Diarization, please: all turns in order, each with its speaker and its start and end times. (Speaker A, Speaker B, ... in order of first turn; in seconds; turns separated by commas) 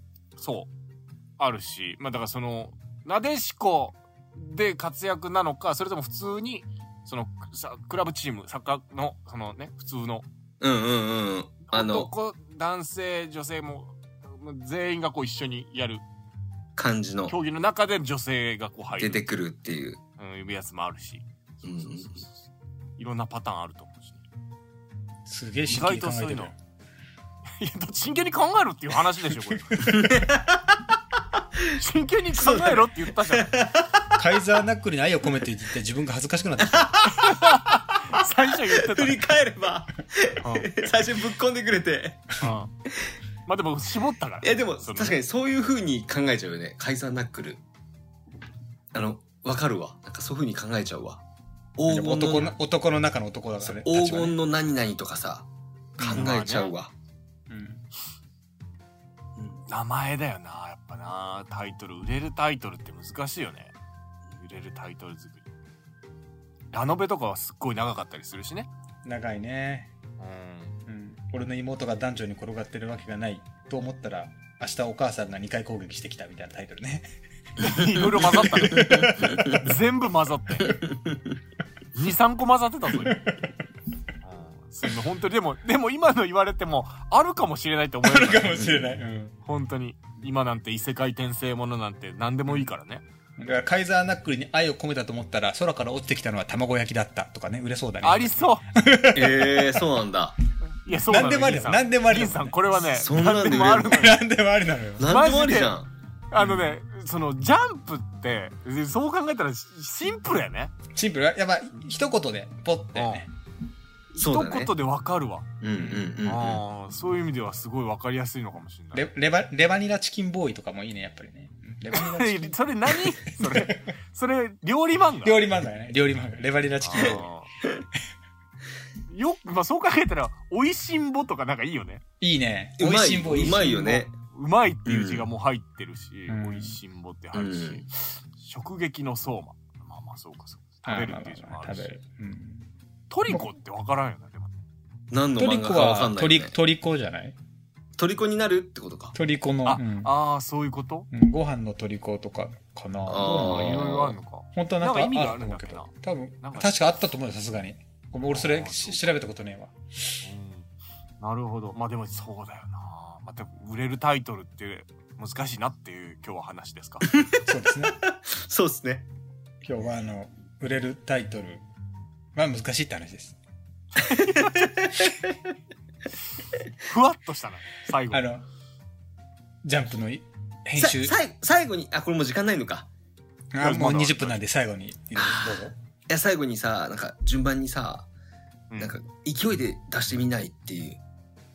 Speaker A: 0.4-0.7, Speaker A: 1.4-10.2, Speaker B: 10.6-12.1, Speaker A: 11.7-16.0, Speaker B: 16.8-17.3, Speaker A: 17.3-19.2, Speaker B: 19.0-20.0, Speaker A: 20.2-22.4, Speaker B: 21.6-22.2, Speaker A: 23.0-24.2, Speaker C: 25.2-26.5, Speaker A: 25.7-26.5, Speaker A: 27.6-29.9, Speaker B: 29.8-30.8, Speaker A: 31.8-33.5, Speaker B: 32.3-33.9, Speaker C: 34.2-37.1, Speaker B: 36.9-37.2, Speaker A: 37.1-39.2, Speaker B: 38.6-42.3, Speaker A: 40.4-40.7, Speaker A: 42.4-42.7, Speaker A: 43.5-45.2, Speaker B: 44.4-47.6, Speaker B: 48.9-51.2, Speaker B: 51.8-52.5, Speaker C: 51.9-54.4, Speaker B: 53.6-55.5, Speaker B: 56.0-56.9, Speaker C: 56.0-56.3, Speaker A: 56.1-56.7, Speaker C: 57.5-57.8, Speaker A: 59.7-63.7, Speaker A: 64.3-65.5, Speaker A: 66.7-68.7, Speaker C: 69.0-69.9, Speaker A: 70.2-70.8, Speaker C: 70.8-77.1, Speaker A: 77.6-80.8, Speaker C: 78.0-79.6, Speaker B: 78.2-79.6, Speaker B: 80.6-81.3, Speaker A: 81.9-83.2, Speaker C: 83.0-83.4, Speaker A: 84.2-88.8, Speaker C: 88.0-89.3, Speaker A: 89.4-93.0, Speaker C: 93.4-99.8, Speaker A: 98.0-98.7, Speaker B: 99.1-100.3, Speaker A: 100.8-104.2, Speaker C: 101.1-102.6, Speaker B: 102.9-104.0, Speaker C: 103.8-105.1, Speaker B: 105.0-105.9, Speaker A: 105.0-105.8, Speaker A: 106.3-110.7, Speaker C: 106.4-106.7, Speaker C: 110.9-113.3, Speaker A: 113.0-113.2, Speaker A: 114.1-119.1, Speaker B: 114.2-114.7, Speaker B: 115.6-116.6, Speaker C: 118.9-122.5, Speaker A: 121.9-125.4, Speaker C: 123.4-123.8, Speaker C: 125.2-127.2, Speaker A: 126.8-127.5, Speaker A: 129.1-132.0, Speaker C: 132.2-134.0, Speaker B: 132.8-134.1, Speaker A: 133.4-142.0, Speaker B: 134.8-135.2, Speaker C: 136.3-136.8, Speaker B: 137.3-137.8, Speaker C: 140.8-142.7, Speaker A: 143.1-144.5, Speaker B: 145.1-146.5, Speaker C: 145.4-147.3, Speaker B: 148.0-149.1, Speaker C: 149.1-150.1, Speaker A: 149.6-151.1, Speaker C: 151.1-154.0, Speaker B: 153.1-154.2, Speaker A: 153.2-155.9, Speaker C: 154.5-159.7, Speaker A: 156.4-156.8, Speaker A: 158.3-159.2, Speaker A: 160.2-160.7, Speaker A: 161.2-167.1, Speaker C: 167.4-167.9, Speaker B: 168.0-169.1, Speaker C: 169.6-171.6, Speaker C: 172.3-173.3, Speaker B: 174.0-175.3, Speaker A: 176.8-178.3, Speaker C: 178.1-178.4, Speaker C: 179.6-181.1, Speaker B: 180.8-182.9, Speaker C: 183.5-185.7, Speaker A: 183.6-184.4, Speaker B: 185.2-188.1, Speaker B: 188.8-191.0